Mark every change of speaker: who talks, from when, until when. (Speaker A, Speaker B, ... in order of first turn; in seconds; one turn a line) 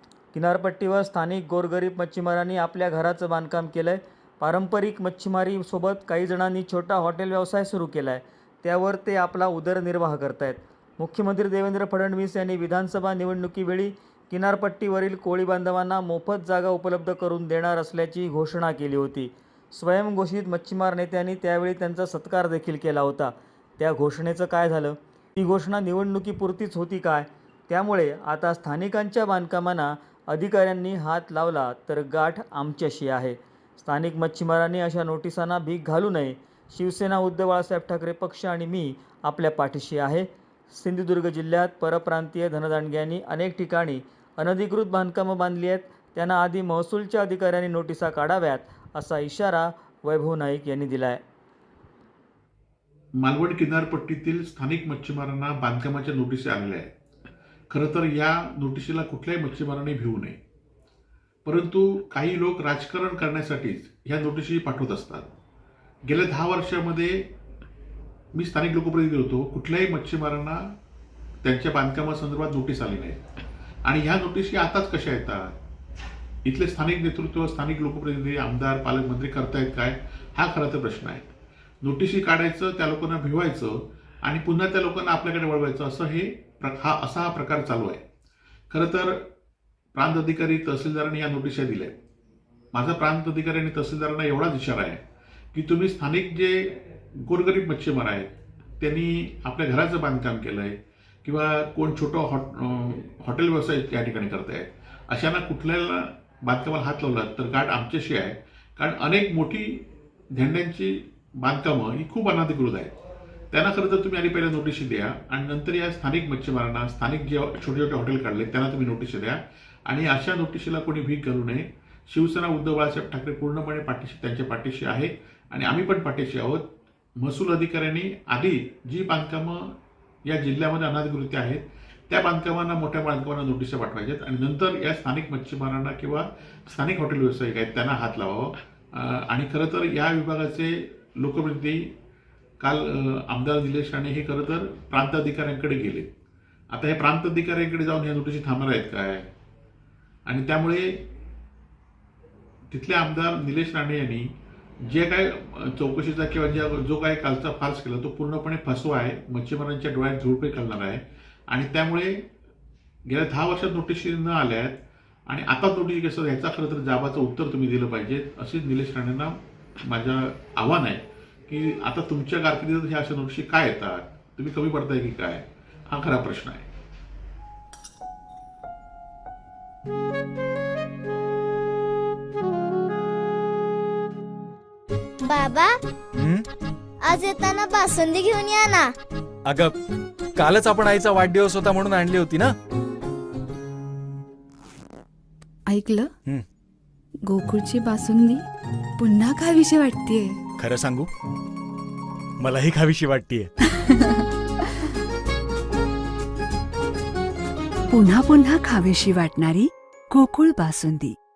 Speaker A: 0.3-51.2
Speaker B: 53.2-56.9
Speaker B: 57.7-60.4
Speaker B: 61.5-65.3
Speaker B: 66.1-67.2
Speaker B: 68.3-70.7
Speaker B: 71.4-73.2
Speaker B: 73.9-75.5
Speaker B: 76.4-81.3
Speaker B: 81.8-88.0
Speaker B: 88.7-89.2
Speaker B: 89.9-91.9
Speaker B: 92.7-95.0
Speaker B: 95.5-112.9
Speaker B: 113.5-119.4
Speaker B: 119.9-126.6
Speaker B: 127.2-129.7
Speaker B: 130.3-141.9
Speaker B: 142.6-146.1
Speaker B: 146.7-149.3
Speaker B: 150.3-151.0
Speaker B: 152.7-154.3
Speaker B: 154.8-162.2
Speaker B: 163.1-176.7
Speaker C: 185.2-185.8
Speaker D: 186.2-186.4
Speaker C: 187.0-188.9
Speaker D: 189.5-189.8
Speaker D: 190.3-192.5
Speaker E: 195.7-196.1
Speaker E: 197.3-198.4
Speaker E: 199.0-200.4
Speaker D: 200.6-201.1
Speaker D: 202.4-203.5
Speaker F: 207.9-211.2